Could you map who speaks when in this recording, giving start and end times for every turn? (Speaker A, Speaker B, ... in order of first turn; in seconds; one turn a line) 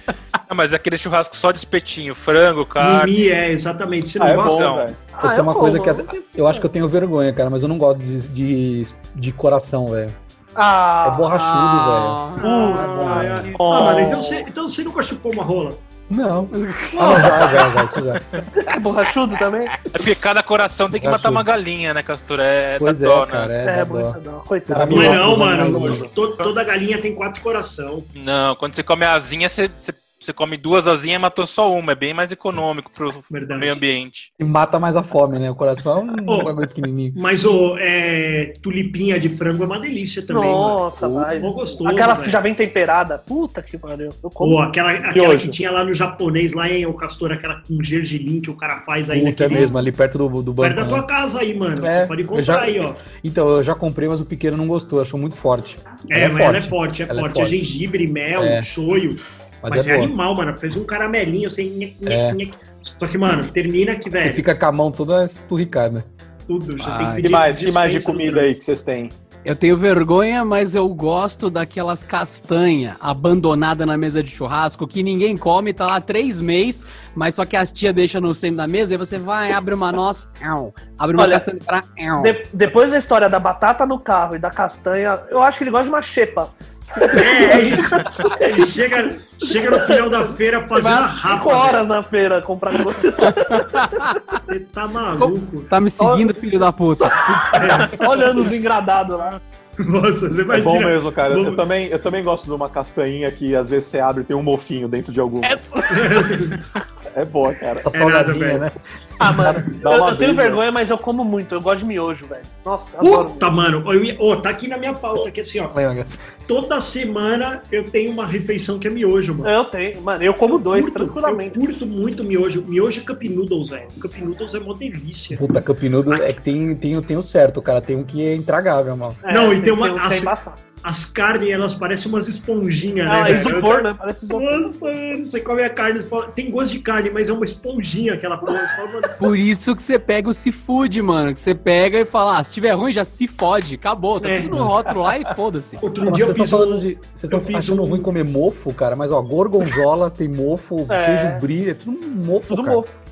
Speaker A: 0.5-3.1
Speaker B: 2.8-4.8
Speaker C: 4.2-5.1
Speaker A: 4.5-4.9
Speaker D: 5.1-6.7
Speaker E: 5.2-10.2
Speaker D: 10.6-11.3
Speaker E: 11.0-13.5
Speaker F: 11.3-12.4
Speaker D: 12.4-14.4
Speaker B: 12.4-15.8
Speaker C: 13.6-14.2
Speaker E: 16.1-18.2
Speaker F: 16.5-17.3
Speaker B: 17.0-17.8
Speaker D: 18.5-19.7
Speaker A: 19.8-23.5
Speaker E: 20.9-21.5
Speaker E: 22.8-24.2
Speaker D: 23.6-26.0
Speaker C: 24.7-26.1
Speaker E: 24.7-26.1
Speaker B: 24.9-28.1
Speaker A: 28.1-34.3
Speaker B: 33.3-33.8
Speaker E: 34.4-37.2
Speaker B: 36.3-36.5
Speaker B: 37.1-42.4
Speaker D: 40.3-44.6
Speaker C: 41.0-41.4
Speaker B: 44.4-49.8
Speaker C: 45.1-45.6
Speaker E: 49.1-51.1
Speaker B: 50.6-53.0
Speaker E: 51.8-57.6
Speaker B: 56.1-64.5
Speaker E: 58.4-58.7
Speaker E: 59.6-60.1
Speaker E: 62.0-62.4
Speaker E: 64.1-66.1
Speaker B: 66.5-68.5
Speaker F: 66.8-67.3
Speaker C: 67.2-69.1
Speaker F: 69.4-82.4
Speaker D: 81.2-81.5
Speaker D: 82.2-88.4
Speaker B: 87.1-91.8
Speaker D: 89.7-90.2
Speaker D: 90.7-93.8
Speaker F: 93.2-94.4
Speaker B: 94.5-95.7
Speaker F: 95.2-97.8
Speaker D: 96.0-96.3
Speaker D: 97.0-99.4
Speaker B: 97.5-98.1
Speaker B: 99.8-101.6
Speaker C: 100.5-105.6
Speaker B: 105.9-106.6
Speaker C: 107.1-107.9
Speaker E: 107.9-108.7
Speaker B: 107.9-108.6
Speaker D: 109.2-113.6
Speaker C: 109.2-110.6
Speaker B: 113.0-115.8
Speaker E: 115.7-116.1
Speaker B: 116.5-119.5
Speaker D: 119.4-121.6
Speaker B: 120.7-125.5
Speaker E: 125.3-129.2
Speaker D: 129.2-130.6
Speaker B: 129.3-139.2
Speaker D: 133.0-134.8
Speaker F: 139.2-145.8
Speaker B: 144.2-144.7
Speaker B: 145.8-148.1
Speaker E: 146.0-152.8
Speaker D: 150.9-151.4
Speaker D: 152.5-152.9